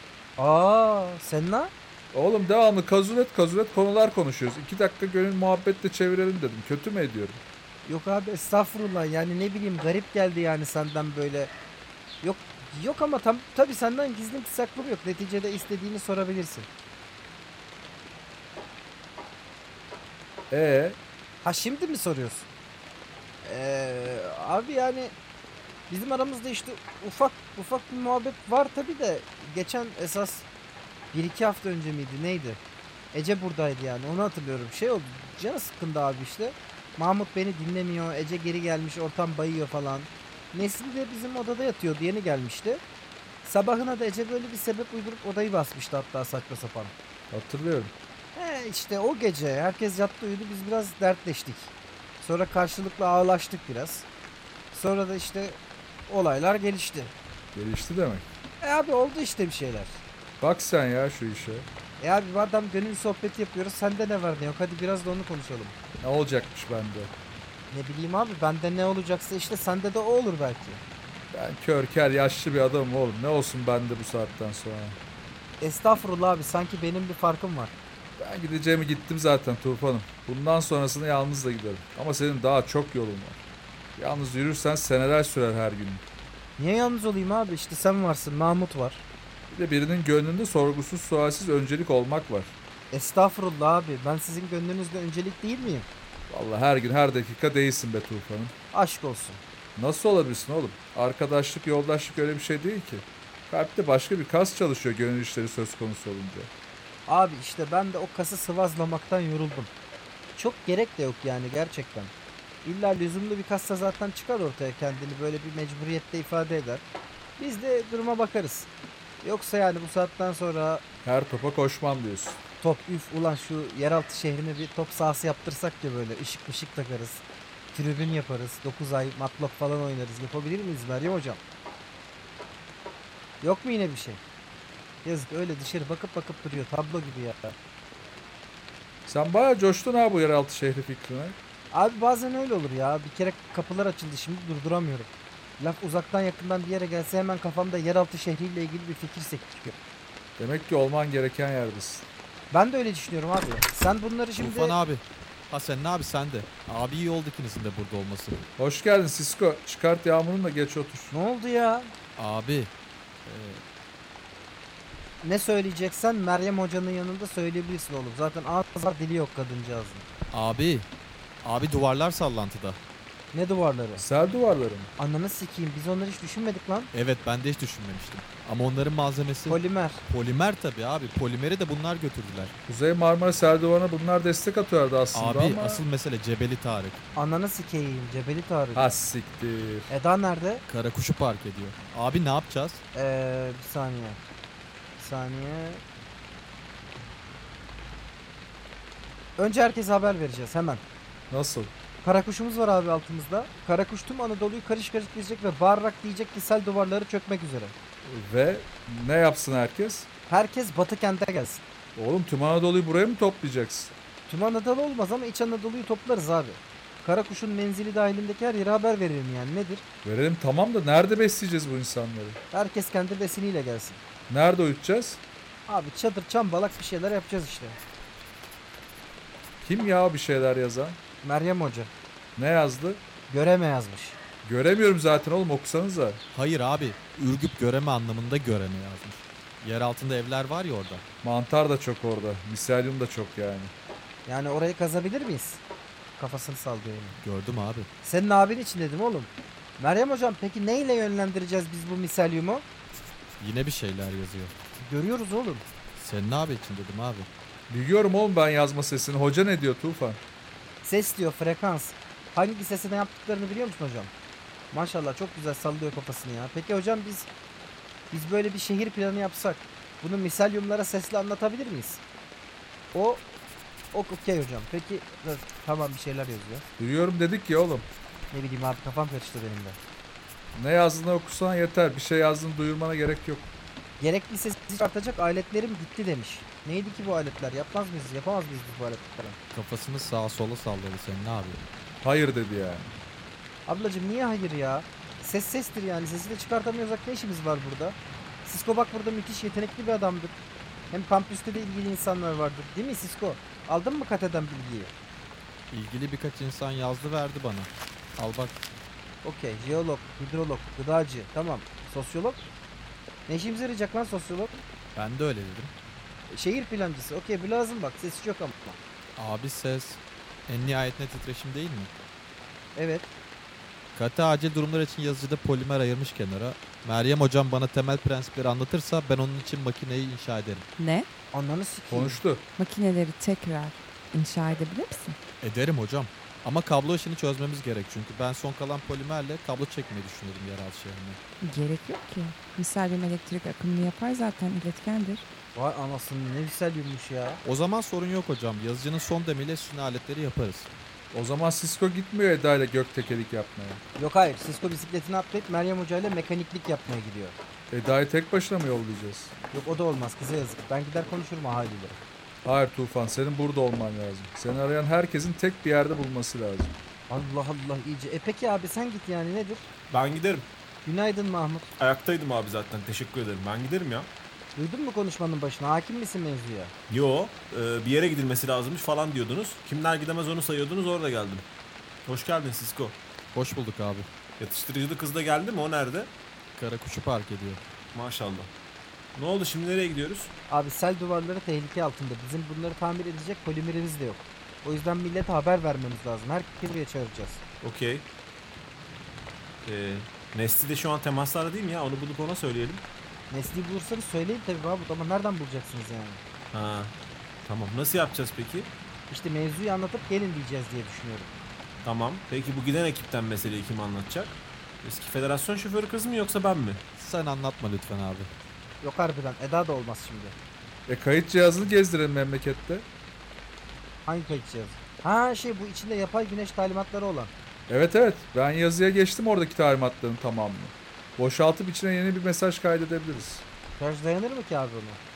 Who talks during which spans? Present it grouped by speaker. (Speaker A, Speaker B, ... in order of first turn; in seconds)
Speaker A: 0.4-1.7, 7.9-11.5, 12.2-16.7, 21.4-22.5, 23.4-25.1, 25.9-30.5, 31.1-32.6, 33.1-42.8, 43.4-46.9, 48.4-54.1, 54.7-57.1, 58.6-60.0, 62.0-65.8, 67.7-70.8, 75.6-77.8, 86.6-89.0, 92.9-95.9, 98.7-99.4, 107.1-109.7, 110.4-112.1, 112.6-116.8, 117.4-118.7, 119.2-120.8, 122.6-131.4, 133.4-134.2, 135.0-137.6, 141.7-149.8, 152.5-154.8, 161.1-161.9, 165.2-170.0, 173.3-174.1, 175.0-176.9, 179.5-180.0, 187.2-188.9, 189.9-190.6, 192.9-194.2, 195.0-195.8, 199.4-200.8, 202.0-207.7, 210.3-211.6, 214.3-219.8, 222.5-224.0, 225.7-227.8, 231.2-231.9, 233.3-234.2, 244.3-245.6, 246.2-247.2, 248.0-252.6, 254.8-255.7, 260.8-264.1, 264.7-267.3, 268.1-272.0, 272.9-273.3, 273.9-276.6, 278.3-279.8, 284.0-289.4, 293.7-300.3, 300.9-304.9, 309.2-312.4, 313.3-314.6, 316.3-318.8, 322.8-323.1, 331.3-332.2, 345.6-347.4, 354.0-357.4, 359.5-362.0, 367.1-369.7, 370.9-371.7, 374.6-376.7, 390.5-397.4, 403.3-406.2, 409.1-411.3, 418.8-420.4, 424.1-427.3, 433.8-435.0
Speaker B: 2.1-7.4, 20.5-21.0, 47.3-47.9, 57.5-58.3, 60.4-61.7, 66.0-67.1, 71.3-75.0, 78.2-83.4, 84.0-86.0, 89.5-92.6, 96.3-98.5, 99.8-106.5, 121.0-122.4, 139.1-141.4, 150.4-152.1, 158.6-161.1, 174.0-174.9, 182.7-185.8, 188.8-189.9, 201.3-201.7, 208.1-210.1, 211.9-213.9, 220.1-222.4, 224.3-225.2, 229.6-231.0, 232.4-233.0, 234.4-236.2, 241.2-243.7, 257.7-260.2, 276.8-277.9, 280.6-283.5, 292.0-292.9, 331.9-332.4, 351.1-353.8, 357.7-359.3, 362.4-366.7, 420.9-422.9, 427.7-433.4
Speaker C: 154.4-158.4, 162.2-162.7, 163.3-163.6, 170.3-170.9, 171.4-172.8, 176.9-182.6, 185.1-187.0, 190.7-192.8, 236.3-241.1, 247.2-247.9, 253.4-254.5, 256.0-257.3, 289.5-291.6, 305.7-308.7, 314.9-315.7, 319.2-321.9, 323.9-330.7, 335.4-341.2, 347.4-350.7, 383.3-384.1, 386.6-387.6, 417.0-418.3
Speaker D: 330.8-331.1, 332.6-335.2, 341.4-345.3
Speaker E: 369.9-370.5, 371.8-374.1, 376.9-381.5, 382.1-383.0, 384.4-386.1, 387.9-388.5, 389.1-390.3, 397.6-398.1, 399.6-402.9, 406.5-408.7, 411.8-416.8